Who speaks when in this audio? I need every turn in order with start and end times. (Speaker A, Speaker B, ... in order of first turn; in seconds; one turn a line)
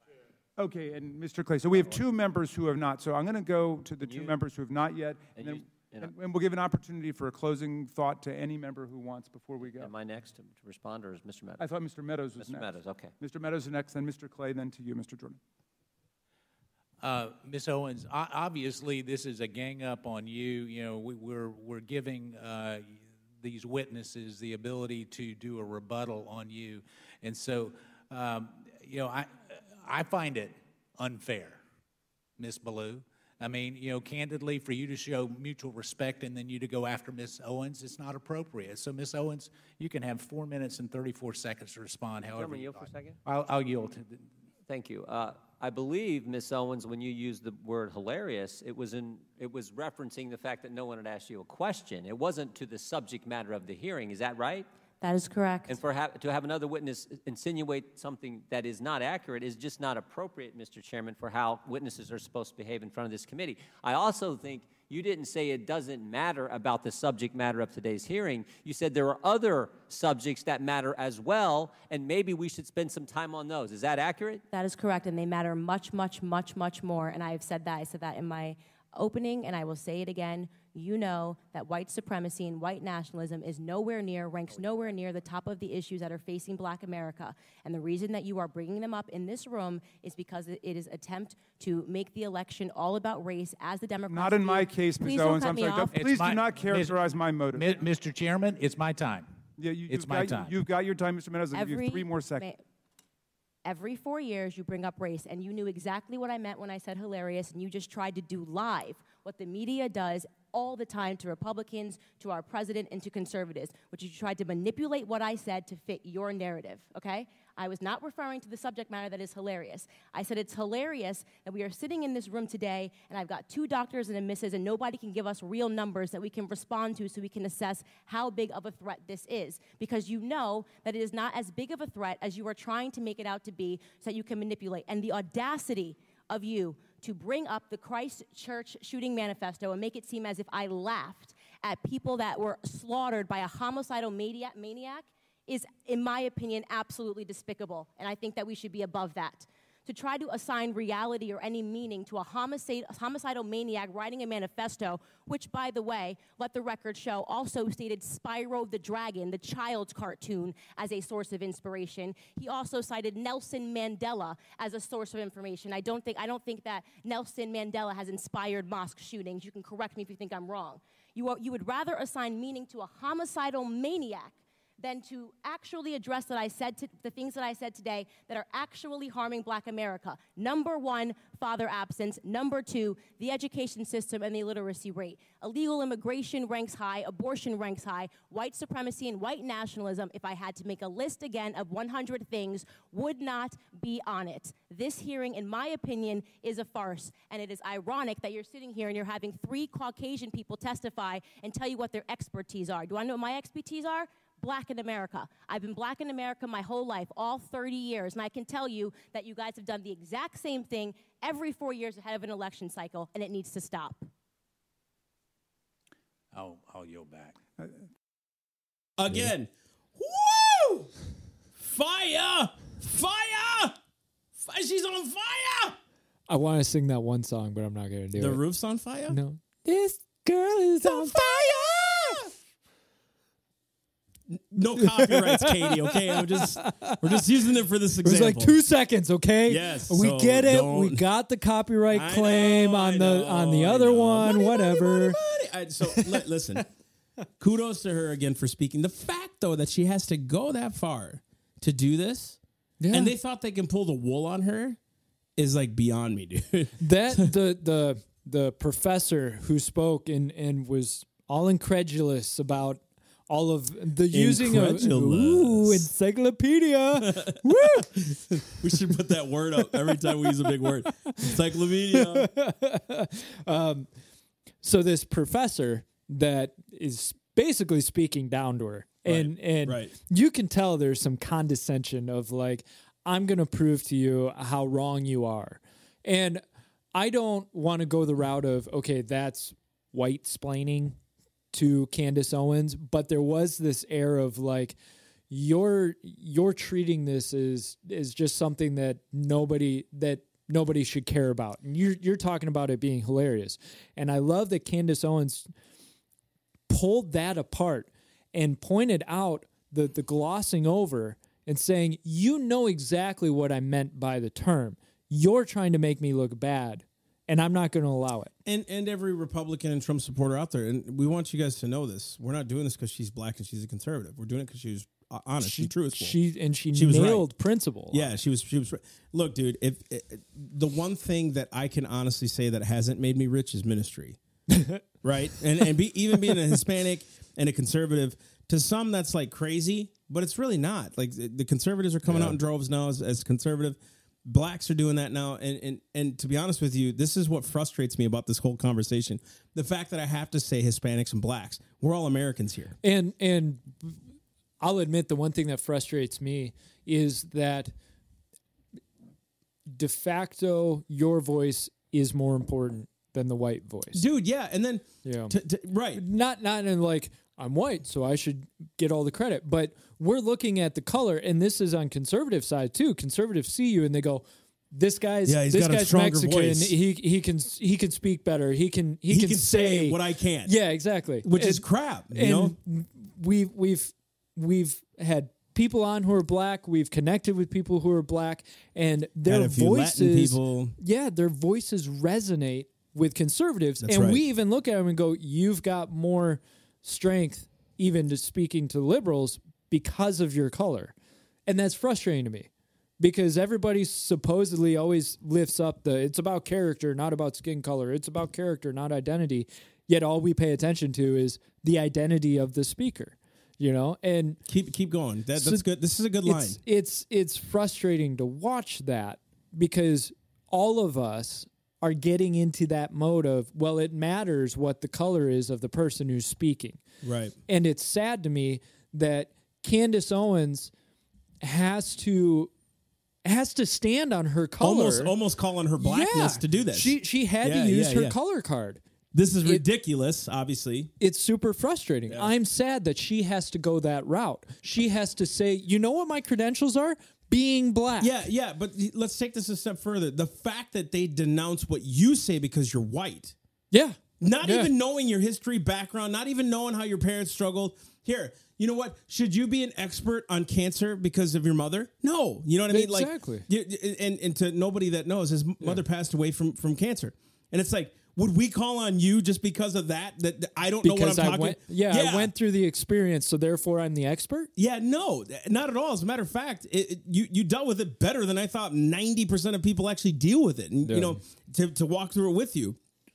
Speaker A: 0.6-9.9
Speaker B: 4.0-4.4
Speaker B: 5.3-6.1
Speaker B: 9.6-11.7
Speaker A: 11.6-15.4
Speaker B: 12.3-13.1
Speaker C: 17.0-31.6
Speaker C: 32.4-44.2
Speaker B: 42.3-43.2
Speaker B: 44.7-54.7
Speaker D: 55.0-55.7
Speaker B: 55.7-74.4
Speaker D: 74.5-96.0
Speaker A: 94.1-97.8
Speaker C: 95.9-99.3
Speaker A: 99.6-102.4
Speaker C: 99.8-100.6
Speaker D: 101.5-102.6
Speaker D: 103.6-214.1
Speaker C: 216.3-217.4
Speaker E: 219.0-220.9
Speaker E: 221.6-223.8
Speaker E: 224.3-225.8
Speaker F: 226.3-228.4
Speaker E: 228.2-229.2
Speaker F: 229.1-232.2
Speaker E: 230.8-232.3
Speaker E: 234.3-238.5
Speaker F: 234.8-237.2
Speaker F: 238.0-245.2
Speaker E: 239.5-241.0
Speaker E: 241.9-246.7
Speaker F: 245.9-246.2
Speaker E: 247.4-252.4
Speaker F: 252.8-253.1
Speaker E: 252.9-254.8
Speaker E: 255.3-257.3
Speaker F: 256.8-267.9
Speaker E: 264.1-265.9
Speaker E: 267.0-272.3
Speaker F: 271.9-273.9
Speaker F: 274.6-286.4
Speaker E: 279.1-279.9
Speaker F: 286.9-290.9
Speaker F: 291.5-294.8
Speaker F: 295.3-305.5
Speaker F: 306.7-318.3
Speaker E: 318.4-326.2
Speaker F: 325.4-328.1
Speaker E: 326.7-327.3
Speaker E: 327.9-334.2
Speaker F: 334.5-334.8
Speaker E: 335.0-352.8
Speaker F: 342.1-342.4
Speaker F: 352.8-354.0
Speaker F: 354.6-357.7
Speaker F: 359.7-364.0
Speaker E: 363.9-366.0
Speaker F: 365.0-365.4
Speaker F: 365.9-400.9
Speaker E: 375.2-376.7
Speaker E: 379.1-380.5
Speaker E: 381.2-382.5
Speaker E: 389.2-390.7
Speaker E: 393.8-394.2
Speaker F: 401.5-402.5
Speaker F: 403.0-414.4
Speaker E: 414.4-416.6
Speaker F: 415.4-415.6
Speaker F: 416.2-426.8
Speaker E: 427.0-427.4
Speaker F: 427.5-430.7
Speaker F: 431.4-432.5
Speaker F: 433.2-435.1
Speaker E: 434.6-438.1
Speaker F: 435.8-438.8
Speaker E: 439.1-440.9
Speaker F: 441.0-448.2
Speaker E: 448.0-453.3
Speaker F: 453.7-454.7
Speaker E: 454.2-472.3
Speaker F: 462.7-463.4
Speaker F: 470.8-474.5
Speaker E: 474.6-482.8
Speaker F: 480.8-481.2